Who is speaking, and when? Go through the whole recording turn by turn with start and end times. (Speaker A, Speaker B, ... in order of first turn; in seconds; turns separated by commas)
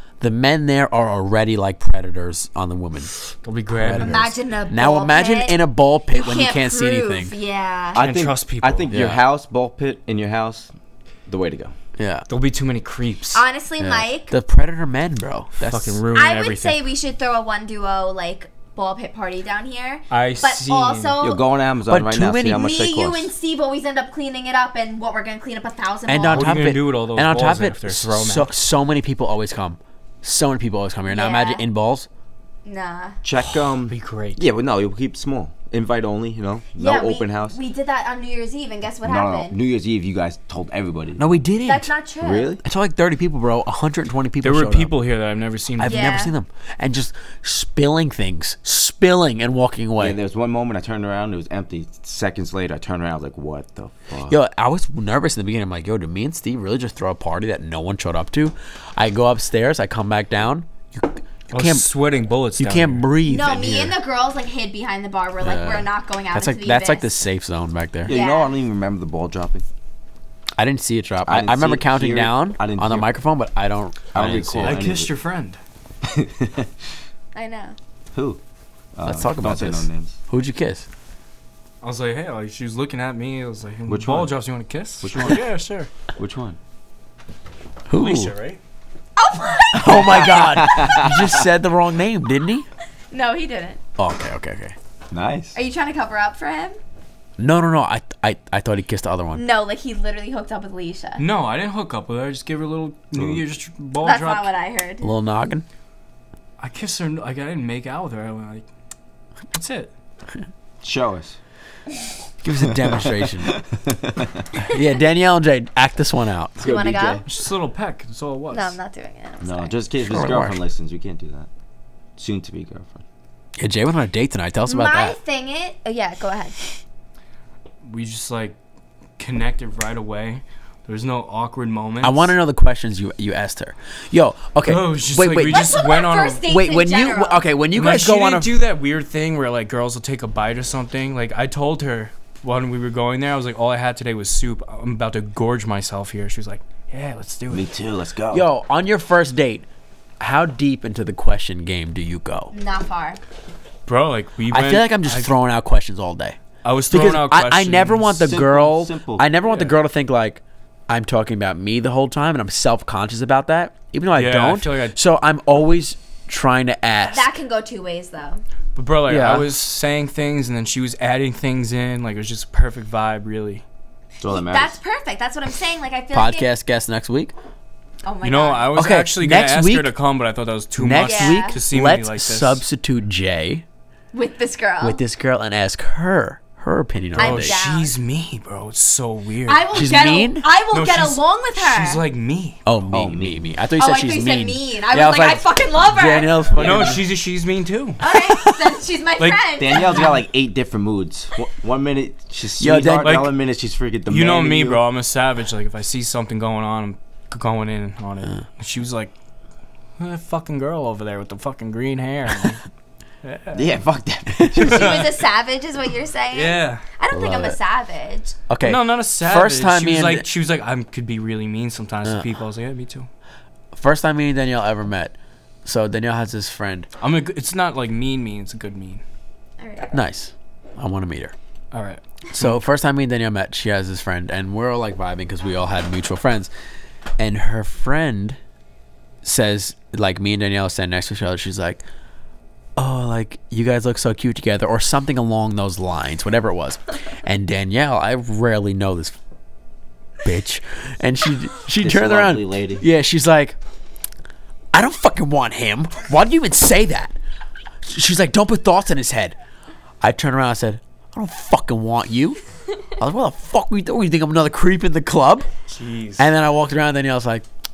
Speaker A: 0.2-3.2, Speaker B: 3.4-4.3, Speaker A: 3.7-7.3, Speaker C: 4.0-5.6, Speaker C: 6.1-8.1, Speaker D: 7.9-10.7, Speaker B: 8.0-8.9, Speaker A: 8.9-9.2, Speaker D: 11.3-11.7, Speaker A: 12.0-12.3, Speaker B: 12.3-13.4, Speaker C: 13.3-14.3, Speaker A: 13.8-16.0, Speaker B: 15.6-16.8, Speaker C: 16.1-21.4, Speaker B: 20.1-21.1, Speaker D: 21.2-23.3, Speaker A: 21.9-22.7, Speaker C: 22.5-26.6, Speaker A: 26.1-32.1, Speaker B: 26.3-28.5, Speaker C: 31.1-31.6, Speaker C: 32.6-33.2, Speaker D: 33.2-37.6, Speaker B: 33.9-34.4, Speaker C: 36.8-39.6, Speaker D: 39.0-41.4, Speaker A: 41.2-41.9, Speaker C: 41.6-42.6, Speaker D: 42.2-42.6, Speaker A: 42.6-44.9, Speaker B: 44.4-46.2, Speaker A: 45.8-50.2, Speaker C: 45.8-46.3, Speaker D: 50.0-54.4, Speaker A: 54.3-61.9, Speaker B: 61.5-63.1, Speaker A: 62.6-64.0, Speaker C: 63.2-67.1, Speaker A: 65.4-68.2, Speaker D: 68.0-69.6, Speaker C: 68.1-68.5, Speaker A: 70.6-74.8, Speaker D: 71.2-73.1, Speaker D: 74.1-75.1, Speaker B: 74.6-75.6, Speaker D: 76.0-76.7, Speaker C: 77.3-77.8, Speaker D: 78.1-78.4, Speaker D: 78.9-80.2, Speaker A: 79.0-80.8, Speaker B: 81.8-85.9, Speaker D: 83.9-84.3, Speaker D: 85.0-85.5, Speaker D: 86.1-86.6, Speaker A: 87.9-88.3, Speaker B: 87.9-88.6, Speaker C: 89.2-90.4, Speaker A: 89.7-92.6, Speaker D: 90.4-91.3, Speaker C: 93.1-93.8, Speaker A: 94.0-94.7, Speaker D: 95.1-95.6, Speaker C: 95.5-96.8, Speaker A: 97.4-99.4, Speaker C: 99.3-101.2, Speaker B: 101.2-104.5, Speaker D: 103.1-103.4, Speaker C: 104.0-105.1, Speaker A: 105.0-105.6, Speaker B: 106.6-108.7, Speaker B: 109.5-109.9, Speaker D: 110.8-111.4, Speaker A: 112.4-113.6, Speaker D: 112.8-114.5, Speaker A: 114.6-116.7, Speaker D: 116.6-117.2, Speaker C: 116.6-117.2, Speaker B: 117.2-118.8, Speaker C: 118.5-119.8, Speaker D: 119.4-121.5, Speaker A: 120.0-120.6, Speaker D: 122.2-123.0, Speaker A: 123.6-125.2, Speaker C: 124.7-126.6, Speaker B: 127.8-128.6, Speaker B: 129.2-132.3, Speaker A: 132.0-135.8, Speaker B: 134.6-136.4, Speaker C: 135.5-137.4, Speaker A: 136.4-138.5, Speaker B: 137.7-147.7, Speaker D: 147.5-148.5, Speaker A: 148.3-149.7, Speaker A: 150.2-152.5, Speaker C: 152.5-153.2, Speaker B: 153.9-155.3, Speaker A: 154.5-156.4, Speaker B: 156.6-158.4, Speaker A: 156.9-167.3, Speaker D: 158.2-159.3, Speaker B: 159.4-159.8, Speaker B: 164.1-165.0, Speaker C: 167.1-168.4, Speaker B: 168.8-173.6, Speaker A: 169.1-169.5, Speaker D: 174.2-174.8, Speaker C: 174.2-176.5, Speaker A: 176.1-177.3, Speaker C: 178.0-178.7, Speaker B: 178.2-182.6, Speaker A: 178.7-179.9, Speaker A: 180.8-183.6, Speaker C: 181.0-181.6, Speaker C: 184.1-185.0, Speaker A: 184.8-187.6, Speaker B: 187.1-190.1, Speaker C: 187.2-187.9, Speaker C: 189.4-192.0, Speaker A: 189.7-190.5, Speaker B: 190.7-192.6, Speaker A: 192.7-197.0, Speaker D: 192.9-193.5, Speaker C: 193.8-196.9, Speaker B: 196.6-198.0, Speaker C: 198.0-200.1, Speaker B: 199.2-200.1, Speaker D: 199.6-204.8, Speaker A: 202.6-203.3, Speaker B: 203.0-203.3, Speaker B: 204.1-209.1, Speaker B: 210.0-212.6, Speaker B: 213.2-213.7, Speaker D: 213.5-215.1, Speaker A: 214.3-214.7, Speaker B: 214.6-215.2, Speaker C: 214.6-218.4, Speaker B: 216.3-216.8, Speaker A: 217.1-217.6, Speaker A: 218.5-220.3, Speaker B: 218.6-223.1, Speaker A: 223.7-226.9, Speaker B: 227.0-229.0, Speaker C: 229.6-229.9, Speaker A: 229.9-231.3, Speaker B: 231.7-232.5, Speaker A: 232.3-236.5, Speaker A: 237.2-238.4, Speaker A: 239.2-241.8, Speaker A: 242.8-249.1, Speaker A: 250.2-253.6, Speaker D: 251.8-252.8, Speaker A: 254.7-257.1, Speaker A: 257.8-259.4, Speaker A: 260.0-262.4, Speaker A: 263.0-265.5, Speaker B: 265.7-266.3, Speaker A: 266.2-267.4